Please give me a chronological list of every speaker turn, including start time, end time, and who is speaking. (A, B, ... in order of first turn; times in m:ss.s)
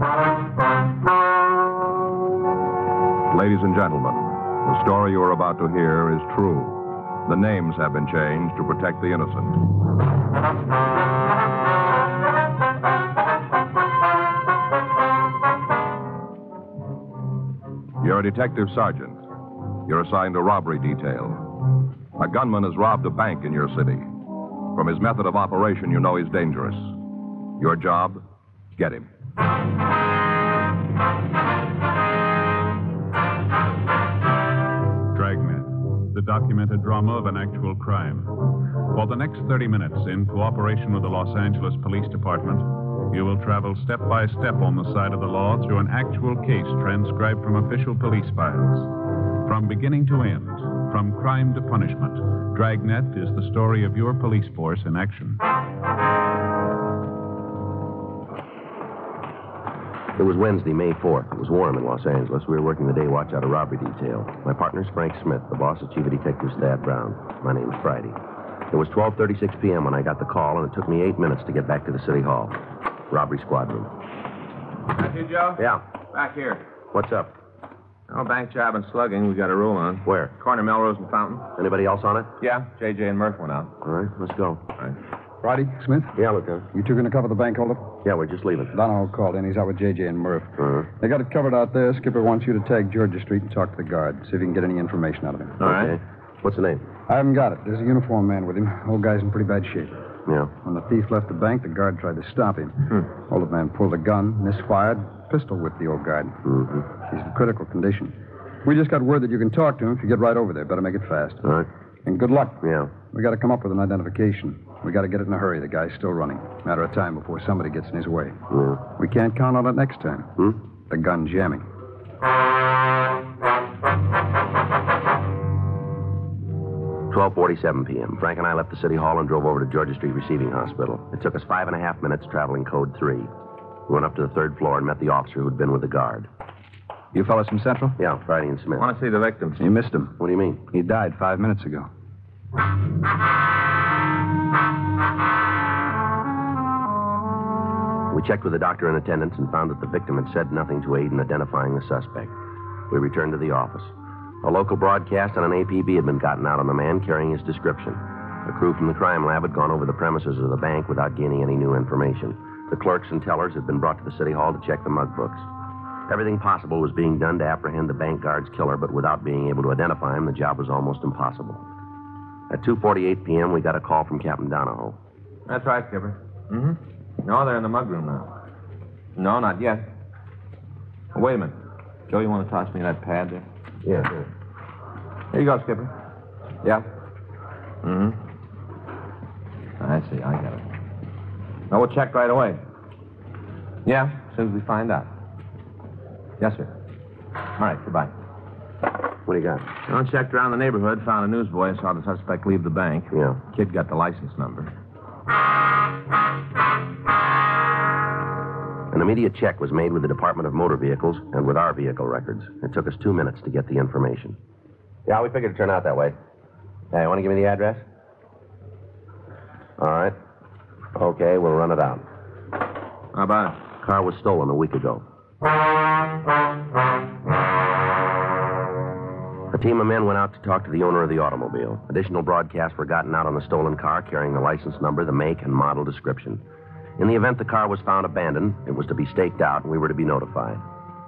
0:03.3-0:09.6 A
0:18.0-0:19.2 A
0:19.8-0:21.6 A
0:22.2-0:24.1 A
0:24.7-0:27.0 A
0:27.6-0:28.2 A
0:28.8-0:29.1 A
0:35.1-0:55.4 B
1:00.2-1:08.2 C
1:08.7-1:12.6 C
1:13.1-1:13.9 C
1:15.0-1:15.6 D
1:15.6-1:15.8 C
1:16.1-1:16.6 D
1:16.9-1:17.3 C
1:18.1-1:21.5 D
1:20.0-1:20.3 C
1:21.6-1:22.3 C
1:22.4-1:23.7 D
1:23.8-1:24.6 C
1:25.4-1:26.2 E
1:26.2-1:26.7 C
1:26.7-1:28.0 E
1:28.0-1:28.8 C
1:28.7-1:35.7 E
1:30.6-1:30.9 C
1:35.6-1:36.8 C
1:37.1-1:40.0 E
1:40.3-1:40.5 C
1:40.6-1:51.4 E
1:46.5-1:46.8 C
1:52.0-1:58.4 E
1:52.6-1:52.9 C
1:58.5-1:58.8 C
1:59.0-2:00.3 E
2:00.9-2:01.6 E
2:07.1-2:13.3 C
2:13.9-2:16.3 C
2:17.1-2:18.0 E
2:18.0-2:18.9 C
2:18.8-2:19.6 D
2:19.6-2:20.2 E
2:20.2-2:20.6 C
2:20.7-2:21.9 E
2:28.1-2:32.3 C
2:32.9-2:33.9 C
2:34.4-2:45.5 C
2:46.1-2:51.6 C
2:52.5-2:55.0 C
2:55.5-2:58.3 D
2:59.2-2:59.9 D
3:01.1-3:01.6 D
3:02.1-3:03.5 D
3:03.8-3:04.2 C
3:05.3-3:05.9 D
3:07.8-3:08.2 D
3:09.8-3:10.7 D
3:11.7-3:12.6 D
3:13.8-3:15.1 D
3:16.4-3:16.7 D
3:17.6-3:18.1 D
3:19.3-3:19.7 C
3:19.9-3:24.7 D
3:28.9-3:34.4 C
3:35.1-3:36.2 C
3:36.9-3:37.8 C
3:39.8-3:40.2 C
3:41.0-3:42.0 C
3:43.1-3:43.6 D
3:43.8-3:45.0 C
3:49.5-3:56.4 C
3:57.0-4:00.6 C